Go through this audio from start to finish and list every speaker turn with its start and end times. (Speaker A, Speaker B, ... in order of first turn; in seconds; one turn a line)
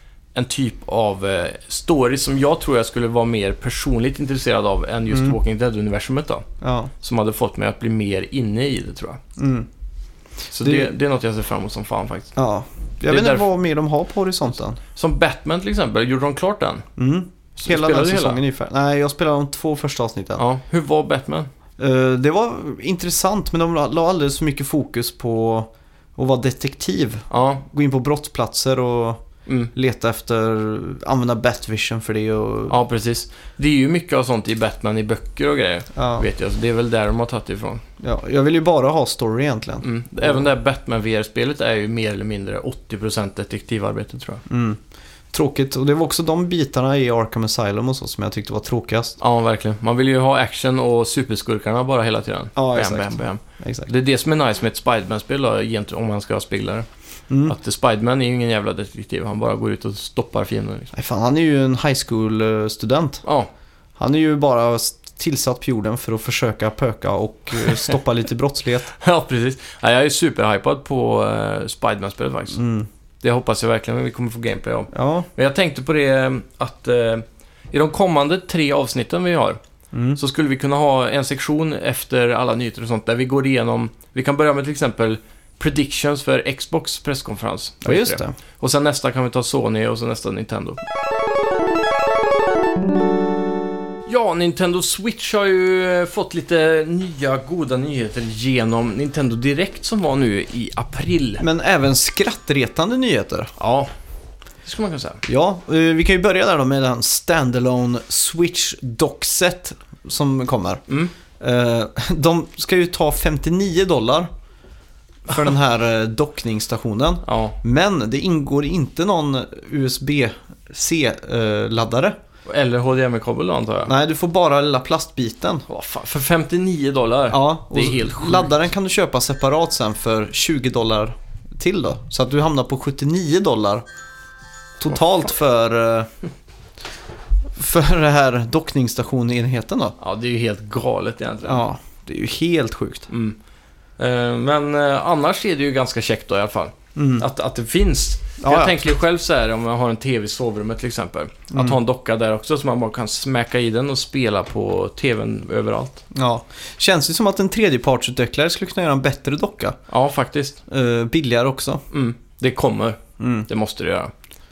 Speaker A: 0.3-6.4
Speaker B: 5.1-5.3
Speaker B: 6.6-6.9
Speaker A: 7.0-9.2
Speaker B: 9.4-9.7
Speaker A: 10.5-12.3
Speaker B: 10.6-10.9
Speaker B: 12.3-14.8
Speaker A: 13.1-13.4
Speaker A: 14.9-16.9
Speaker B: 17.0-20.4
Speaker A: 17.6-18.4
Speaker A: 20.4-21.5
Speaker B: 21.8-29.2
Speaker A: 27.3-27.6
Speaker A: 29.4-29.7
Speaker B: 29.7-32.8
Speaker A: 32.7-37.8
Speaker B: 35.9-36.2
Speaker B: 38.0-40.4
Speaker A: 39.8-44.4
Speaker B: 44.5-44.8
Speaker B: 45.3-49.2
Speaker A: 49.2-56.9
Speaker B: 52.5-53.9
Speaker B: 57.3-57.5
Speaker A: 57.4-60.9
Speaker B: 60.9-63.2
Speaker A: 63.2-63.5
Speaker B: 64.0-68.9
Speaker A: 68.9-72.6
Speaker B: 72.5-72.9
Speaker A: 73.2-79.6
Speaker B: 74.9-75.3
Speaker B: 79.9-80.2
Speaker A: 80.2-90.8
Speaker B: 87.8-88.3
Speaker A: 94.1-101.4
Speaker B: 101.4-103.5
Speaker A: 103.6-103.9
Speaker A: 104.6-105.2
Speaker B: 105.2-110.8
Speaker B: 111.4-114.3
Speaker B: 115.3-122.1
Speaker A: 117.2-117.5
Speaker A: 122.5-123.9
Speaker B: 123.8-125.6
Speaker A: 125.7-128.5
Speaker B: 127.3-133.8
Speaker B: 134.8-136.1
Speaker B: 137.5-139.9
Speaker A: 140.0-141.7
Speaker B: 141.4-143.1
Speaker A: 143.1-143.4
Speaker A: 144.0-156.0
Speaker B: 146.9-147.2
Speaker B: 148.4-148.9
Speaker B: 151.5-151.8
Speaker B: 156.1-159.8
Speaker A: 159.9-160.6
Speaker B: 160.7-161.8
Speaker A: 161.9-164.1
Speaker B: 163.2-163.5